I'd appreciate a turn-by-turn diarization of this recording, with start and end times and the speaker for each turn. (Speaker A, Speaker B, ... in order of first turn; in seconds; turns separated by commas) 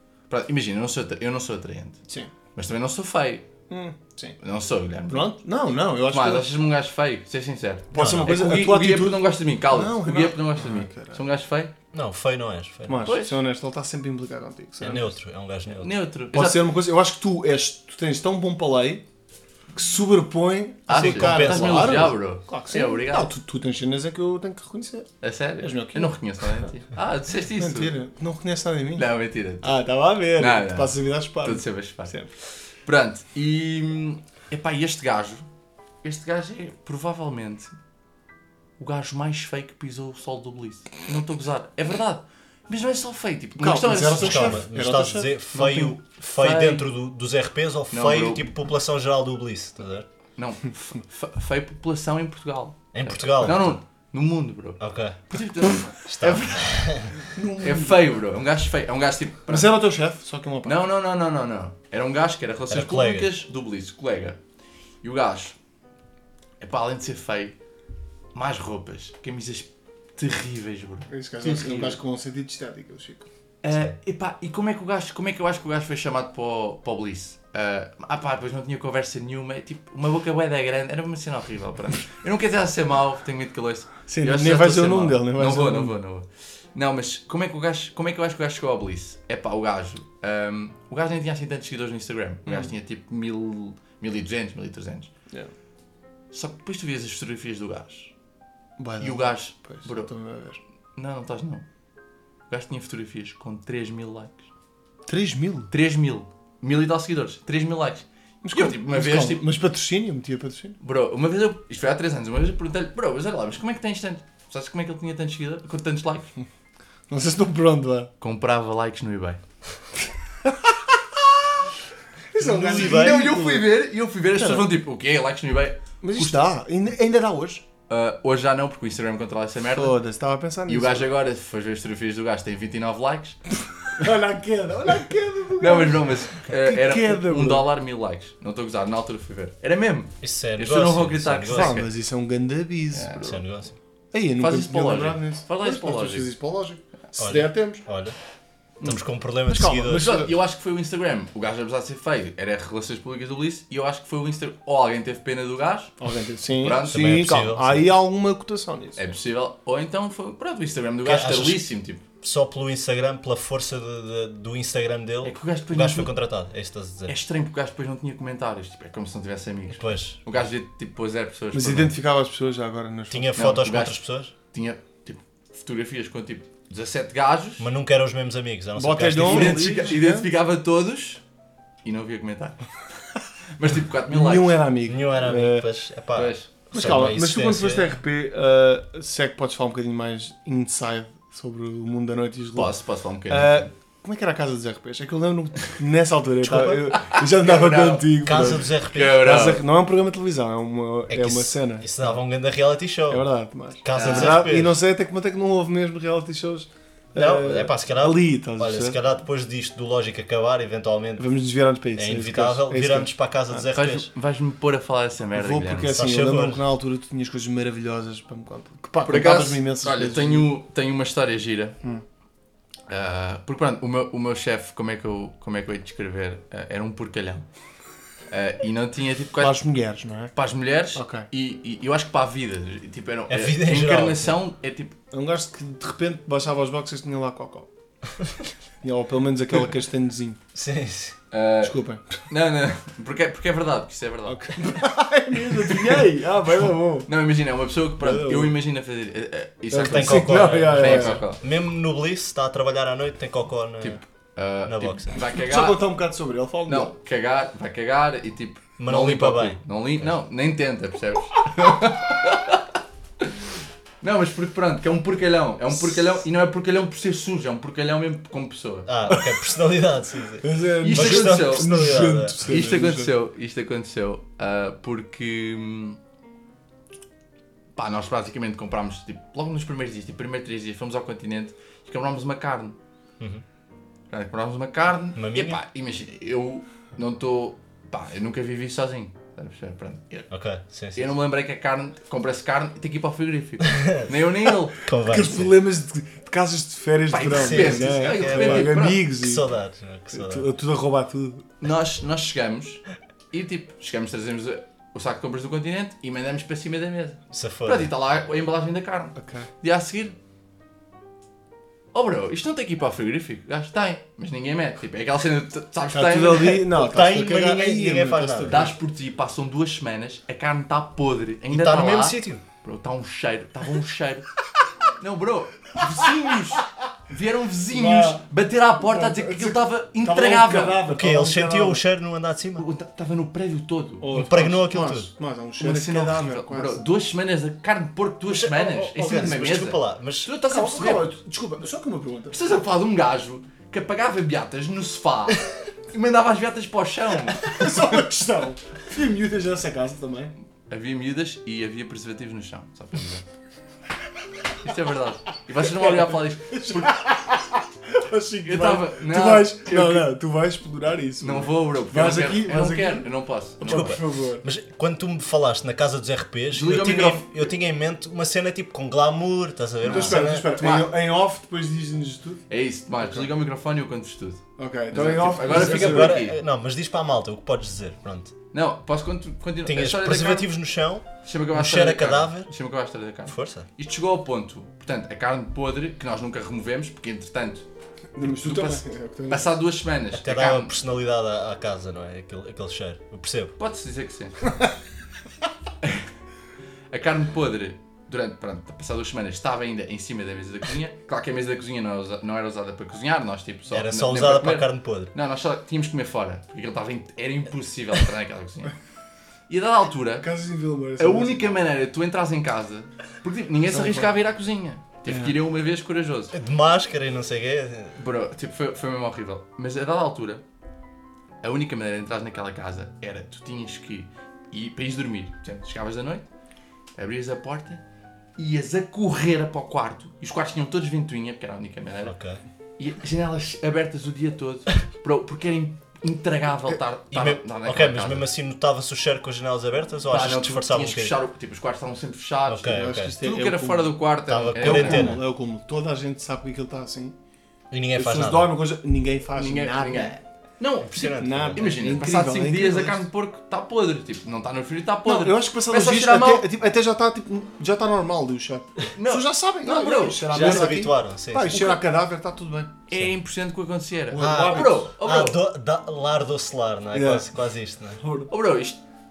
Speaker A: 0.3-2.0, Speaker A: 2.5-3.5, Speaker B: 3.7-4.4, Speaker A: 4.4-5.3, Speaker B: 5.1-6.5, Speaker A: 6.1-11.7, Speaker B: 7.9-11.2, Speaker C: 7.9-8.4, Speaker C: 11.9-13.1, Speaker B: 12.9-15.1, Speaker A: 13.0-13.4, Speaker C: 14.8-15.9, Speaker A: 15.8-16.6, Speaker B: 16.3-19.0, Speaker B: 19.7-26.1, Speaker A: 20.9-23.3, Speaker C: 20.9-22.1, Speaker A: 25.2-27.9, Speaker B: 27.6-29.1, Speaker A: 28.9-29.7, Speaker B: 29.6-32.3, Speaker A: 30.4-32.3, Speaker A: 32.8-35.5, Speaker A: 36.0-37.7, Speaker A: 38.8-44.6, Speaker B: 43.6-46.0, Speaker C: 44.1-50.1, Speaker A: 46.2-46.9, Speaker A: 47.9-48.5, Speaker A: 50.4-59.7, Speaker C: 52.9-53.8, Speaker C: 54.8-55.2, Speaker C: 56.1-57.2, Speaker B: 57.3-58.0, Speaker B: 59.5-60.8, Speaker A: 60.6-64.4, Speaker C: 62.7-63.3, Speaker A: 65.0-65.5, Speaker A: 66.6-67.6, Speaker A: 68.3-72.0, Speaker B: 71.1-73.3, Speaker A: 73.6-95.1, Speaker B: 84.1-85.9, Speaker A: 96.3-98.1, Speaker B: 98.8-100.6, Speaker A: 99.0-100.1, Speaker A: 101.0-101.6, Speaker A: 102.5-104.5, Speaker B: 105.1-105.7, Speaker A: 105.7-109.4, Speaker B: 108.4-110.8, Speaker A: 110.8-116.3, Speaker B: 117.1-118.1, Speaker A: 118.2-119.4, Speaker B: 120.4-120.9, Speaker B: 122.3-123.7, Speaker C: 122.4-123.5, Speaker A: 122.4-126.5, Speaker B: 124.3-124.7, Speaker B: 126.0-127.6, Speaker A: 127.9-130.0, Speaker B: 129.7-131.1, Speaker A: 130.7-133.4, Speaker B: 133.9-137.7, Speaker A: 135.6-141.9, Speaker C: 140.2-141.8, Speaker B: 141.5-143.2, Speaker A: 142.9-143.4, Speaker C: 143.2-143.7, Speaker B: 144.1-147.8, Speaker A: 144.4-146.3, Speaker C: 147.2-148.1, Speaker C: 148.8-150.2, Speaker B: 149.5-150.3, Speaker A: 149.9-155.9, Speaker B: 156.0-159.1, Speaker A: 156.6-157.5, Speaker C: 156.9-157.9, Speaker A: 158.9-162.0, Speaker C: 161.0-161.7, Speaker C: 162.2-167.1, Speaker A: 165.2-166.1, Speaker A: 167.1-171.9, Speaker C: 169.7-170.2, Speaker B: 171.5-173.4, Speaker C: 173.1-174.3, Speaker A: 173.3-177.7, Speaker C: 177.6-179.8, Speaker B: 178.8-180.3, Speaker A: 179.2-181.2, Speaker A: 181.8-182.8, Speaker A: 183.6-184.6, Speaker B: 184.1-185.7, Speaker C: 184.9-188.0, Speaker A: 186.1-186.5, Speaker B: 186.7-192.7, Speaker A: 192.5-193.7, Speaker B: 193.3-198.7, Speaker C: 196.4-196.9, Speaker A: 196.9-198.2, Speaker C: 198.2-199.3, Speaker A: 198.9-199.6, Speaker B: 199.2-201.9, Speaker C: 201.1-203.3, Speaker B: 203.1-209.0, Speaker C: 203.8-204.8, Speaker A: 203.9-204.5, Speaker C: 207.1-211.2, Speaker B: 211.2-213.6, Speaker C: 211.9-214.1, Speaker A: 213.7-215.9, Speaker B: 215.3-220.5, Speaker C: 215.9-216.6, Speaker A: 219.0-221.8, Speaker A: 222.9-227.4, Speaker A: 228.3-229.6, Speaker B: 229.4-230.3, Speaker A: 230.3-234.9, Speaker B: 230.9-231.3, Speaker C: 233.3-234.4, Speaker B: 235.1-237.7, Speaker B: 238.8-240.4, Speaker C: 240.5-241.2, Speaker A: 241.3-244.7, Speaker B: 241.6-242.2, Speaker B: 244.2-247.1, Speaker A: 245.7-246.0, Speaker A: 247.1-251.4, Speaker B: 248.0-248.5, Speaker B: 249.7-251.2, Speaker C: 249.8-254.0, Speaker A: 253.8-255.8, Speaker C: 254.6-255.1, Speaker B: 255.3-256.9, Speaker A: 256.7-262.7, Speaker C: 258.8-259.6, Speaker A: 263.2-263.5, Speaker A: 264.0-268.9, Speaker C: 268.9-272.4, Speaker B: 270.4-273.1, Speaker A: 270.8-276.0, Speaker A: 277.8-282.8, Speaker A: 284.1-290.3, Speaker C: 285.1-285.6, Speaker C: 290.3-291.1, Speaker A: 290.9-294.8, Speaker C: 293.7-294.0, Speaker C: 294.8-295.5, Speaker B: 295.0-299.5, Speaker A: 297.1-299.0, Speaker C: 297.3-300.4, Speaker B: 300.1-301.4, Speaker A: 301.6-310.1, Speaker C: 307.3-307.9, Speaker B: 309.1-309.5, Speaker A: 311.9-316.7, Speaker B: 315.9-318.7, Speaker C: 316.8-318.7, Speaker A: 318.5-324.3, Speaker C: 321.5-322.4, Speaker A: 325.0-330.8, Speaker B: 327.7-328.2, Speaker B: 328.8-331.8, Speaker C: 330.9-332.6, Speaker A: 332.5-334.1, Speaker B: 334.0-336.8, Speaker C: 334.1-335.1, Speaker A: 335.6-341.1, Speaker C: 338.3-340.3, Speaker B: 340.4-342.4, Speaker A: 342.3-347.8, Speaker B: 347.4-350.3, Speaker A: 350.7-353.2, Speaker A: 354.6-357.0, Speaker B: 355.8-363.1, Speaker A: 358.4-360.1, Speaker A: 361.2-363.9, Speaker B: 363.6-364.4, Speaker C: 363.6-370.5, Speaker A: 366.5-367.4, Speaker B: 369.8-372.4, Speaker A: 369.8-371.0, Speaker A: 372.5-376.4, Speaker B: 374.6-376.2, Speaker C: 375.4-378.3, Speaker A: 378.5-380.5, Speaker C: 379.6-382.5, Speaker A: 381.2-387.6, Speaker C: 383.3-383.7, Speaker B: 388.1-389.5, Speaker A: 388.2-390.7, Speaker C: 390.1-393.5, Speaker A: 393.6-394.5, Speaker A: 396.9-408.7, Speaker C: 403.7-405.1, Speaker A: 409.5-410.3, Speaker B: 410.2-411.6, Speaker A: 411.0-416.3, Speaker B: 413.7-414.0, Speaker B: 415.1-415.3, Speaker C: 416.3-417.9, Speaker A: 418.0-420.4, Speaker A: 421.4-426.2, Speaker A: 427.0-427.8, Speaker A: 428.4-432.1, Speaker C: 432.0-432.4, Speaker A: 432.8-438.2, Speaker C: 437.1-441.1, Speaker A: 440.1-445.2, Speaker C: 442.4-443.1, Speaker B: 442.7-443.9, Speaker C: 444.3-445.2, Speaker B: 444.5-447.1, Speaker C: 447.7-448.5, Speaker B: 447.9-450.2, Speaker A: 449.4-456.5, Speaker C: 450.8-451.6, Speaker B: 451.2-453.0, Speaker B: 455.0-462.7, Speaker A: 458.9-460.7, Speaker C: 460.3-461.7, Speaker A: 462.9-465.4, Speaker B: 464.1-464.9, Speaker C: 464.2-468.0, Speaker B: 466.9-467.3, Speaker B: 468.0-468.3, Speaker A: 468.3-468.8